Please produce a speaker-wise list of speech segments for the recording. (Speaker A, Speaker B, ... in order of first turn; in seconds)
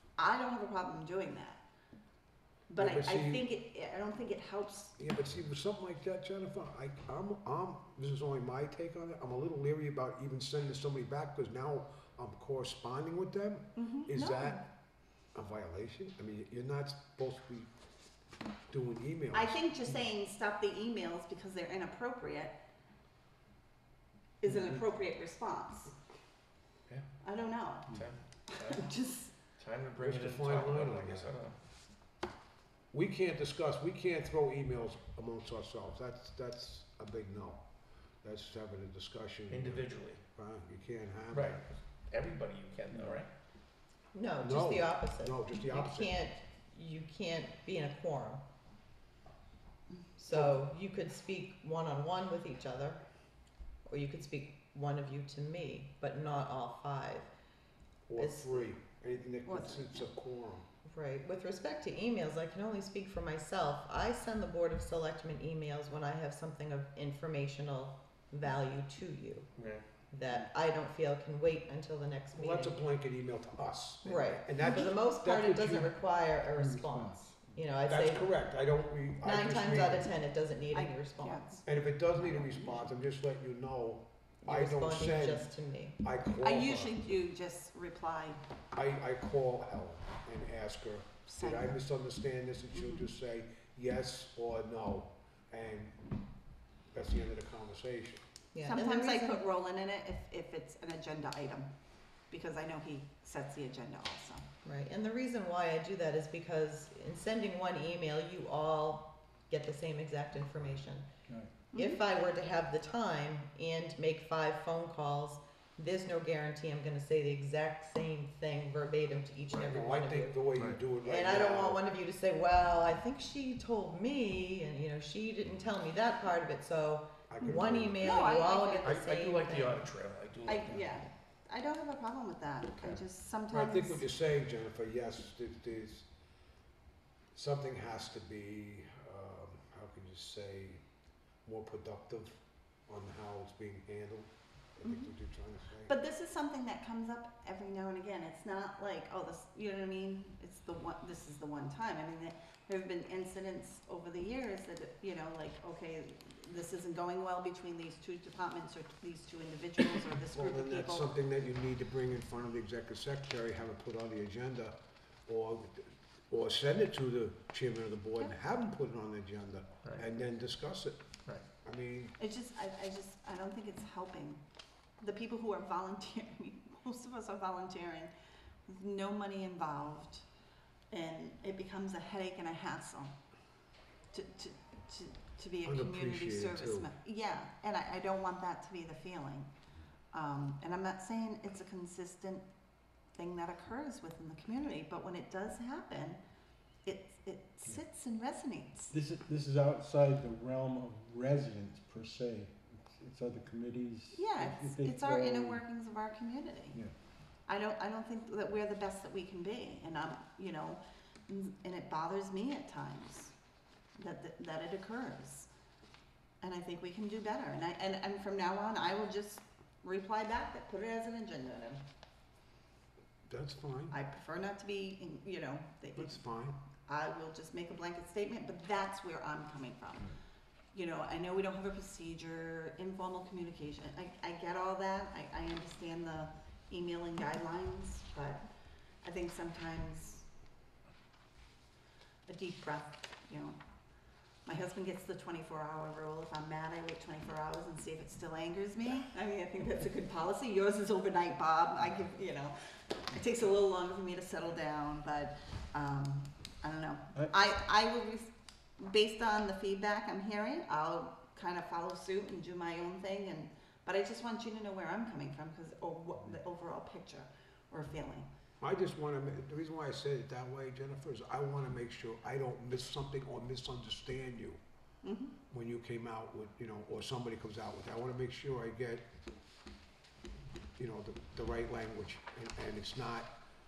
Speaker A: 0.2-1.6, 2.7-5.0, 13.8-14.6, 19.3-22.6, 24.4-25.9, 27.2-29.3, 59.5-60.0, 80.7-81.6, 86.4-88.4, 91.3-91.8, 92.7-93.0, 98.6-101.7, 102.3-104.5, 111.7-112.0, 128.0-129.0, 130.4-134.1, 144.8-145.1, 145.8-161.1, 172.2-174.4, 175.0-178.1, 178.7-180.2, 180.9-183.1, 184.1-189.5, 190.1-192.4, 193.1-196.2, 196.8-198.9, 204.1-206.8, 207.5-213.3, 213.9-215.5, 216.4-221.8, 223.9-226.2, 226.8-230.1, 230.7-238.4, 239.0-240.2, 242.3-243.6, 244.4-252.5, 253.1-268.3, 275.0-275.4
Speaker B: 2.8-3.5, 5.0-14.6, 15.3-17.7, 18.7-19.6, 30.0-31.3, 32.9-37.6, 38.2-41.6, 42.9-43.2, 44.4-46.2, 50.3-50.6, 58.1-60.6, 72.3-75.9, 77.8-80.1, 81.6-85.5, 86.0-87.0, 88.7-96.0, 96.9-98.2, 119.6-121.8, 127.3-128.3, 133.5-136.1, 137.3-140.8, 141.4-145.9, 160.3-164.8, 165.3-171.0, 171.6-172.2, 185.6-186.9, 223.3-223.9, 225.9-226.6, 268.6-274.6, 275.5-279.0, 280.8-283.3
Speaker C: 27.9-28.9, 29.6-31.6, 39.5-40.2, 41.3-43.3, 69.5-69.8, 128.8-131.0
Speaker D: 44.1-48.4, 50.2-53.0, 53.9-57.3, 58.2-58.7, 60.8-69.5, 70.1-72.8, 74.0-78.3, 79.2-81.6, 84.5-86.0, 98.5-99.4, 104.6-111.1, 111.7-120.5, 121.0-129.8
Speaker E: 76.5-77.5, 111.3-111.6, 198.9-205.7